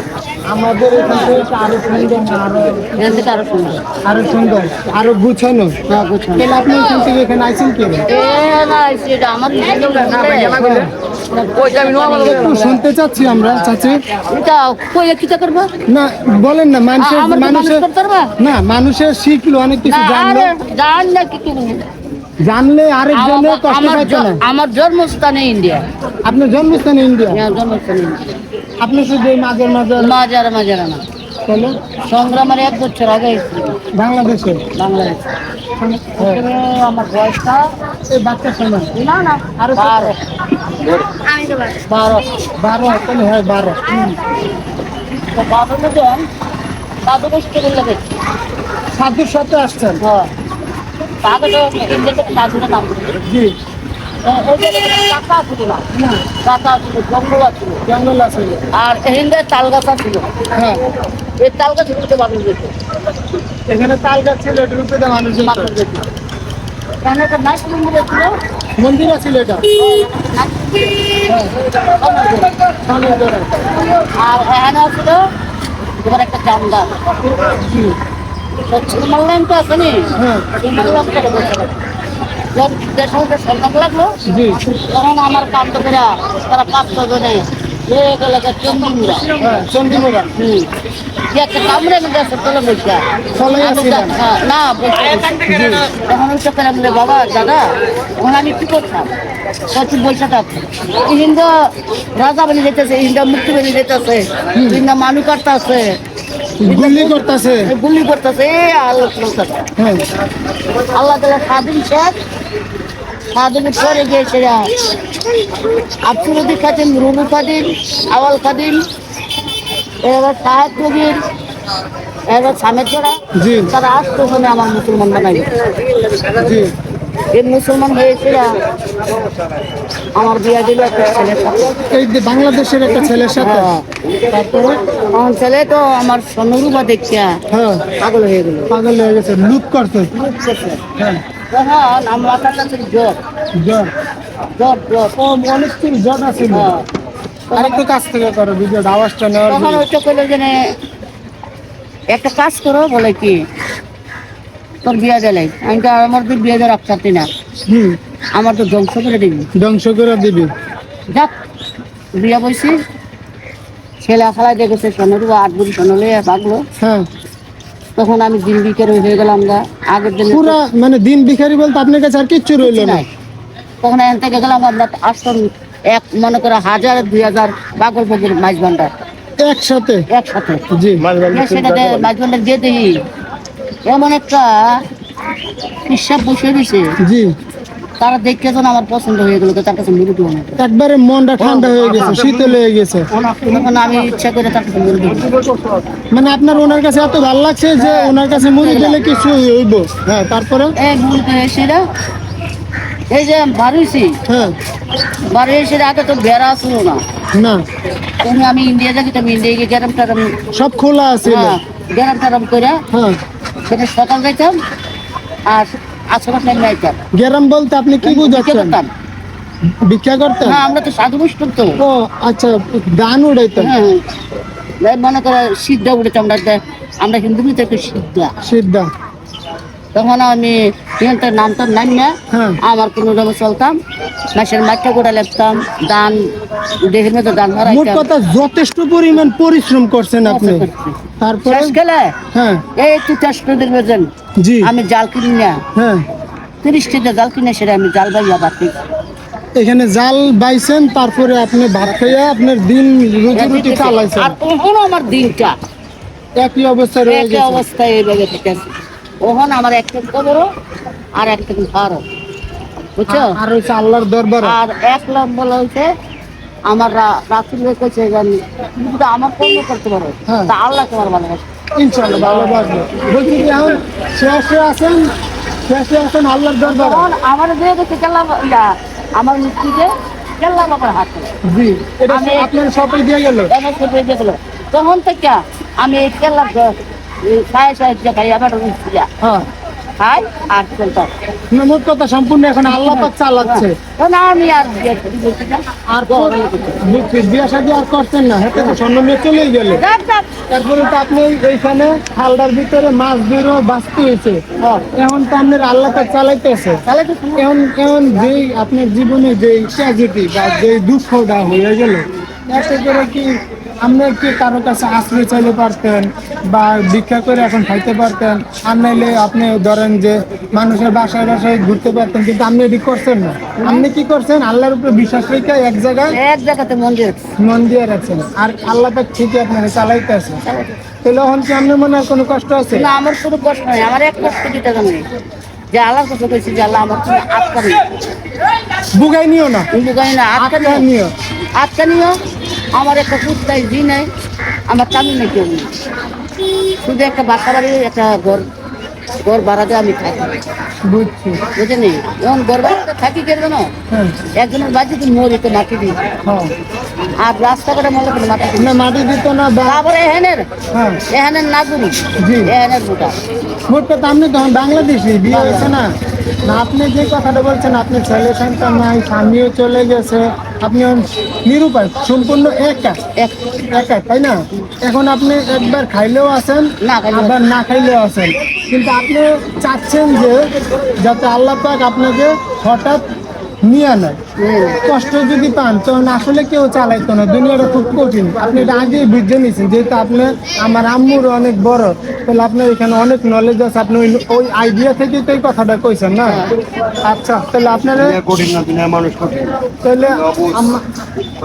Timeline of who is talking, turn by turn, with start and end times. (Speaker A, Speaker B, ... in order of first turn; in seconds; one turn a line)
Speaker A: 0.4-3.2
Speaker B: 1.0-1.4
Speaker B: 3.0-3.8
Speaker A: 4.0-5.8
Speaker B: 5.9-6.5
Speaker A: 6.3-8.1
Speaker B: 8.1-10.7
Speaker A: 10.5-10.9
Speaker B: 11.3-12.8
Speaker C: 11.7-12.1
Speaker A: 12.2-14.0
Speaker B: 14.3-15.7
Speaker A: 15.9-17.8
Speaker B: 17.0-18.3
Speaker A: 18.4-20.6
Speaker B: 19.8-21.8
Speaker A: 22.4-24.4
Speaker B: 23.1-25.9
Speaker A: 26.2-27.4
Speaker B: 27.3-28.4
Speaker A: 28.8-30.1
Speaker B: 30.0-31.0
Speaker A: 31.4-31.8
Speaker B: 32.0-33.8
Speaker A: 33.9-34.6
Speaker B: 34.7-35.2
Speaker B: 35.8-37.7
Speaker A: 38.1-38.9
Speaker B: 38.9-40.2
Speaker A: 39.6-40.1
Speaker B: 40.8-42.4
Speaker A: 42.6-43.8
Speaker B: 43.9-44.2
Speaker B: 45.1-46.3
Speaker B: 47.0-48.0
Speaker A: 48.9-50.0
Speaker B: 50.0-50.3
Speaker B: 51.2-53.2
Speaker A: 53.2-53.5
Speaker B: 54.2-57.8
Speaker A: 57.8-58.6
Speaker B: 58.7-60.3
Speaker A: 60.5-60.8
Speaker B: 61.4-62.7
Speaker A: 63.7-65.7
Speaker B: 65.4-66.0
Speaker B: 67.0-68.3
Speaker A: 68.8-69.7
Speaker B: 69.7-72.5
Speaker A: 72.8-73.7
Speaker B: 74.0-75.2
Speaker B: 76.0-76.9
Speaker A: 77.5-77.9
Speaker B: 78.7-81.7
Speaker A: 80.2-80.5
Speaker B: 82.5-89.4
Speaker A: 84.2-84.6
Speaker A: 89.4-90.3
Speaker B: 89.9-90.7
Speaker B: 91.3-99.1
Speaker A: 93.3-94.1
Speaker B: 99.7-106.0
Speaker A: 104.5-104.8
Speaker A: 106.6-107.7
Speaker B: 106.6-109.7
Speaker A: 109.8-110.0
Speaker B: 110.7-112.2
Speaker B: 113.3-114.7
Speaker B: 115.7-118.8
Speaker B: 120.0-121.2
Speaker B: 122.3-125.6
Speaker A: 123.3-123.7
Speaker B: 126.2-126.6
Speaker A: 126.4-126.7
Speaker B: 127.3-128.5
Speaker B: 130.1-131.8
Speaker A: 131.8-133.7
Speaker B: 133.1-133.9
Speaker A: 134.3-134.8
Speaker B: 135.1-137.4
Speaker A: 137.5-137.8
Speaker B: 138.0-138.7
Speaker A: 138.7-141.2
Speaker B: 141.5-143.2
Speaker A: 143.6-143.9
Speaker B: 144.6-145.1
Speaker A: 145.2-146.7
Speaker B: 146.4-146.9
Speaker B: 147.5-147.8
Speaker A: 147.5-149.8
Speaker B: 149.5-150.7
Speaker B: 152.1-153.4
Speaker B: 154.8-157.3
Speaker A: 157.7-158.0
Speaker B: 158.3-159.5
Speaker A: 159.6-160.5
Speaker B: 162.2-162.8
Speaker B: 164.0-166.6
Speaker A: 166.8-167.1
Speaker B: 168.0-170.6
Speaker A: 170.3-173.0
Speaker B: 172.6-173.1
Speaker B: 173.8-178.9
Speaker A: 179.4-180.0
Speaker B: 180.1-180.6
Speaker A: 180.7-181.2
Speaker C: 181.1-181.6
Speaker B: 181.2-183.0
Speaker B: 183.8-184.8
Speaker B: 185.8-186.9
Speaker A: 187.0-187.3
Speaker B: 188.0-190.6
Speaker A: 190.6-193.1
Speaker C: 193.2-193.5
Speaker B: 193.4-195.4
Speaker C: 195.3-195.9
Speaker A: 196.1-200.7
Speaker B: 197.8-199.0
Speaker B: 200.8-201.8
Speaker B: 203.1-204.2
Speaker A: 204.3-204.5
Speaker B: 205.3-207.0
Speaker A: 207.3-207.6
Speaker B: 208.2-210.4
Speaker A: 210.5-211.6
Speaker B: 211.2-212.8
Speaker A: 212.9-213.2
Speaker B: 213.7-214.6
Speaker B: 215.4-217.0
Speaker A: 217.1-218.8
Speaker B: 218.0-218.9
Speaker A: 219.8-220.6
Speaker B: 220.4-221.8
Speaker A: 221.8-223.7
Speaker B: 223.6-224.0
Speaker B: 224.8-228.3
Speaker A: 228.4-228.9
Speaker B: 229.9-233.8
Speaker A: 232.3-232.6
Speaker B: 234.3-236.3
Speaker B: 236.8-238.1
Speaker A: 237.6-240.7
Speaker B: 240.2-242.2
Speaker A: 241.2-241.7
Speaker A: 242.3-242.6
Speaker B: 242.8-244.1
Speaker A: 244.4-244.7
Speaker B: 244.6-245.6
Speaker A: 245.7-246.0
Speaker B: 246.6-248.8
Speaker A: 249.5-254.3
Speaker B: 251.8-252.2
Speaker B: 253.3-255.6
Speaker A: 256.4-257.6
Speaker B: 257.1-258.7
Speaker B: 259.2-260.5
Speaker B: 261.2-262.0
Speaker B: 262.9-263.4
Speaker A: 263.1-264.6
Speaker B: 264.4-265.9
Speaker B: 266.6-271.4
Speaker A: 270.3-270.5
Speaker A: 271.7-275.1
Speaker B: 272.1-273.7
Speaker A: 275.7-277.1
Speaker B: 276.6-281.3
Speaker A: 281.4-283.5
Speaker B: 282.1-282.5
Speaker B: 283.5-289.1
Speaker B: 290.0-291.1
Speaker A: 291.5-293.8
Speaker B: 292.7-296.8
Speaker A: 295.9-299.8
Speaker B: 299.7-300.3
Speaker A: 300.5-306.8
Speaker B: 304.6-304.9
Speaker B: 306.9-307.5
Speaker A: 307.4-326.2
Speaker B: 323.6-323.9
Speaker B: 326.1-327.2
Speaker A: 327.4-330.4
Speaker B: 330.4-330.7
Speaker A: 331.0-332.9
Speaker B: 332.7-335.1
Speaker B: 335.7-337.9
Speaker A: 338.9-339.7
Speaker B: 339.7-340.9
Speaker A: 340.4-341.1
Speaker B: 341.5-342.2
Speaker B: 342.7-344.1
Speaker B: 344.7-345.7
Speaker B: 346.7-348.5
Speaker B: 349.2-350.3
Speaker A: 350.8-351.4
Speaker B: 351.6-353.7
Speaker A: 353.9-354.1
Speaker B: 354.3-356.0
Speaker A: 356.2-356.5
Speaker B: 357.2-358.7
Speaker A: 358.6-359.8
Speaker B: 359.6-360.5
Speaker A: 360.7-361.0
Speaker B: 361.1-363.1
Speaker A: 362.2-362.5
Speaker A: 363.7-365.9
Speaker B: 365.2-365.8
Speaker A: 366.4-373.0
Speaker B: 373.1-373.4
Speaker A: 373.6-383.0
Speaker B: 376.8-377.4
Speaker A: 383.6-384.2
Speaker B: 384.4-384.8
Speaker A: 384.8-396.5
Speaker B: 396.2-396.5
Speaker A: 397.0-398.2
Speaker C: 398.2-399.5
Speaker A: 399.8-400.9